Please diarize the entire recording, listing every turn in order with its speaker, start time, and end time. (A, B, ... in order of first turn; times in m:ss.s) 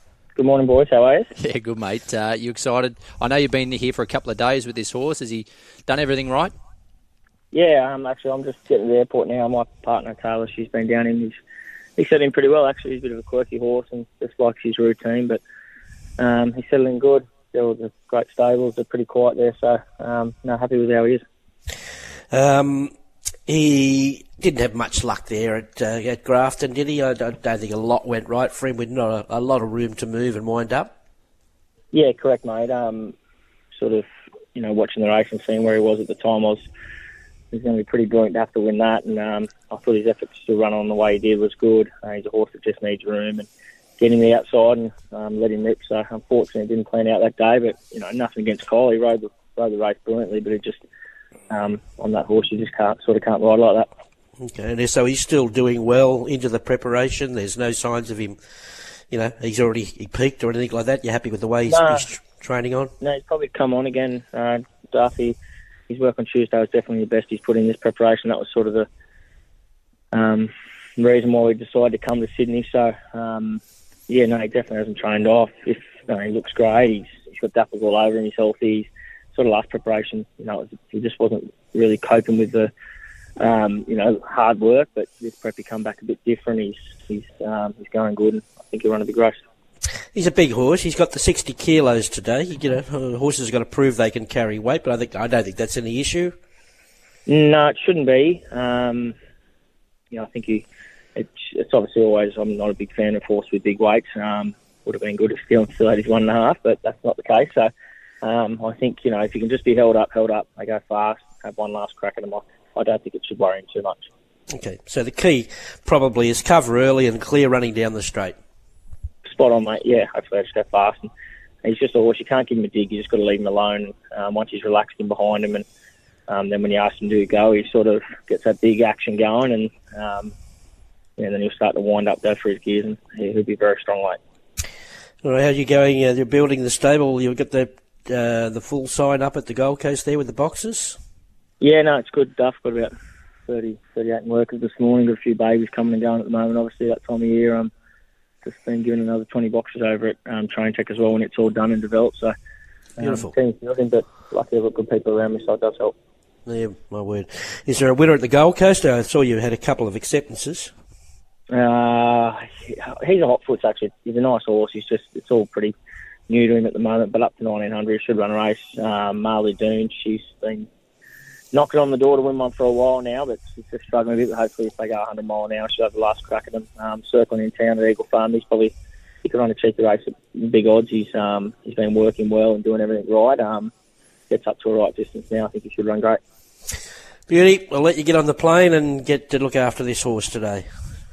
0:00.3-0:01.3 A
0:01.4-0:06.5 B
0:07.5-0:11.4 A
0:12.0-0:15.4 A
0:16.2-0:21.2 A
0:22.3-0:22.9 C
0:23.5-0:30.9 C
0:31.9-0:33.1 A
0:33.7-0:36.6 A
0:37.5-0:43.5 A
0:44.0-0:50.8 A
0:51.5-0:53.9 A
0:54.4-0:58.4 C
0:59.1-1:02.9 C
1:01.7-1:02.0 A
1:03.0-1:05.4 A
1:05.9-1:08.9 A
1:10.1-1:22.7 A
1:23.4-1:29.4 A
1:30.1-1:36.3 C
1:37.2-1:39.2 A
1:40.1-1:47.7 A
1:48.2-1:54.0 A
1:54.5-1:58.4 C
1:59.2-2:01.1 A
2:01.6-2:05.6 A
2:06.3-2:10.3 A
2:11.2-2:14.2 A
2:15.2-2:21.0 C
2:21.6-2:22.9 A
2:23.5-2:27.7 A
2:28.4-2:32.3 A
2:33.0-2:35.9 A
2:33.0-2:33.3 C
2:36.4-2:40.7 C
2:41.5-2:45.7 A
2:46.3-2:50.7 A
2:51.5-3:03.7 A
3:04.3-3:06.2 A
3:07.3-3:10.6 C